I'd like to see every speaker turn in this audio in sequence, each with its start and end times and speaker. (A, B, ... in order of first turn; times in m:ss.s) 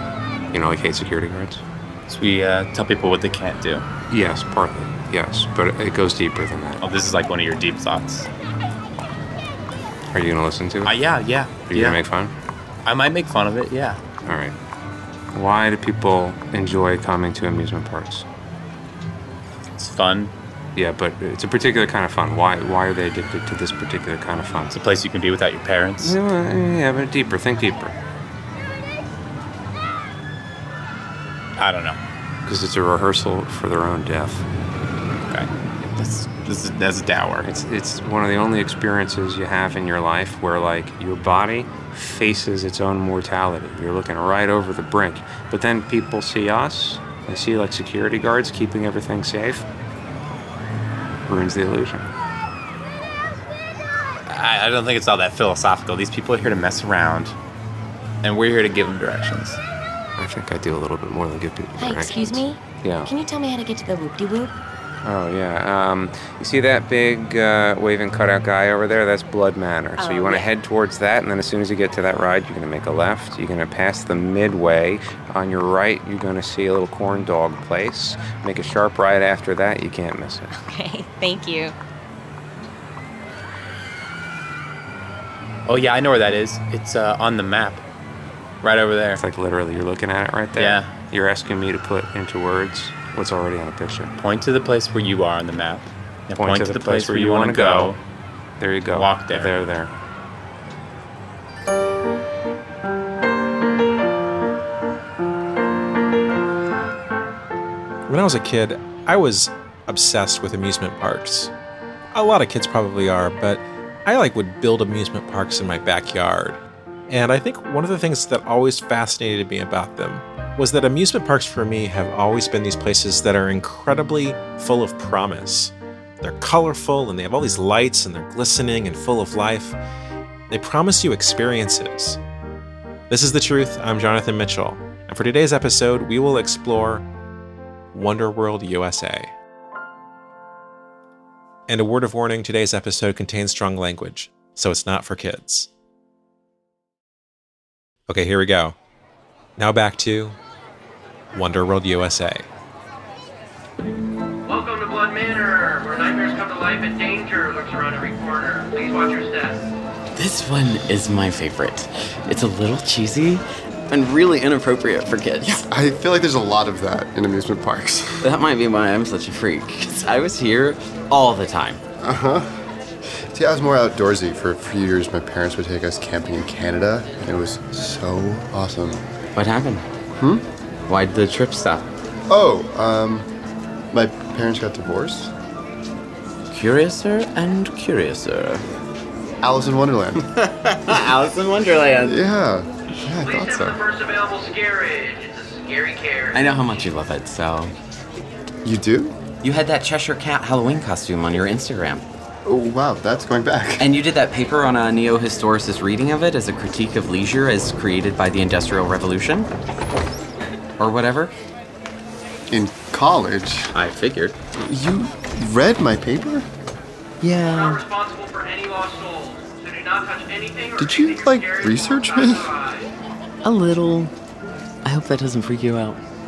0:00.5-0:01.6 A
0:02.1-0:03.8 B
0:04.1-0:06.8 A
0:06.8-0:08.3 B
0:10.1-0:11.0 A
0:10.8-0:12.0 B
0:11.6-0:12.3 A
0:12.8-0:14.0 B
0:14.2-0:14.6 A
0:15.3-0:18.2 A
0:19.8-0:20.3 B
0:20.7-0:24.8 A
0:24.7-0:26.2 B
0:26.0-0:28.0 A
0:31.6-0:32.0 B
0:32.4-0:34.4 A
0:35.3-0:37.5 B
0:37.4-0:49.6 A
0:51.3-0:52.1 A
0:54.3-0:57.3 B
0:58.2-0:59.6 B
1:00.2-1:03.1 A
1:01.8-1:04.5 C
1:05.0-1:20.5 A
1:10.0-1:10.5 C
1:20.5-1:21.7 C
1:25.6-1:27.8 B
1:28.6-1:29.2 B
1:29.1-1:34.1 A
1:30.6-1:30.9 B
1:34.2-1:38.0 B
1:36.4-1:37.9 A
1:38.6-1:39.9 A
1:38.9-1:39.5 B
1:48.1-1:51.5 D
1:52.1-2:09.8 D
2:10.5-2:12.2 D
2:13.1-2:17.0 D
2:17.9-2:19.3 D
2:21.7-2:25.7 D
2:28.1-2:28.7 D
2:29.6-2:30.4 D
2:31.3-2:32.4 D
2:34.4-2:39.7 E
2:40.1-2:45.6 F
2:45.4-2:48.3 G
2:48.2-2:51.8 F
2:52.0-2:52.5 G
2:53.3-2:59.0 G
2:59.3-2:59.8 F
3:00.2-3:00.4 G
3:00.9-3:01.9 F
3:02.3-3:03.3 G
3:03.9-3:05.3 G
3:06.5-3:08.6 F
3:09.4-3:10.2 G
3:10.3-3:12.2 F
3:12.0-3:13.8 G
3:13.2-3:16.4 E
3:16.3-3:17.7 F
3:18.6-3:19.2 G
3:19.4-3:22.0 F
3:22.4-3:23.9 G
3:23.8-3:29.5 F
3:30.8-3:31.3 F
3:32.5-3:33.7 G
3:33.8-3:34.3 B
3:33.8-3:34.3 F
3:34.6-3:36.5 G
3:37.2-3:37.8 F
3:37.5-3:42.9 E
3:40.8-3:42.5 G
3:43.4-3:44.1 F
3:44.8-3:46.0 F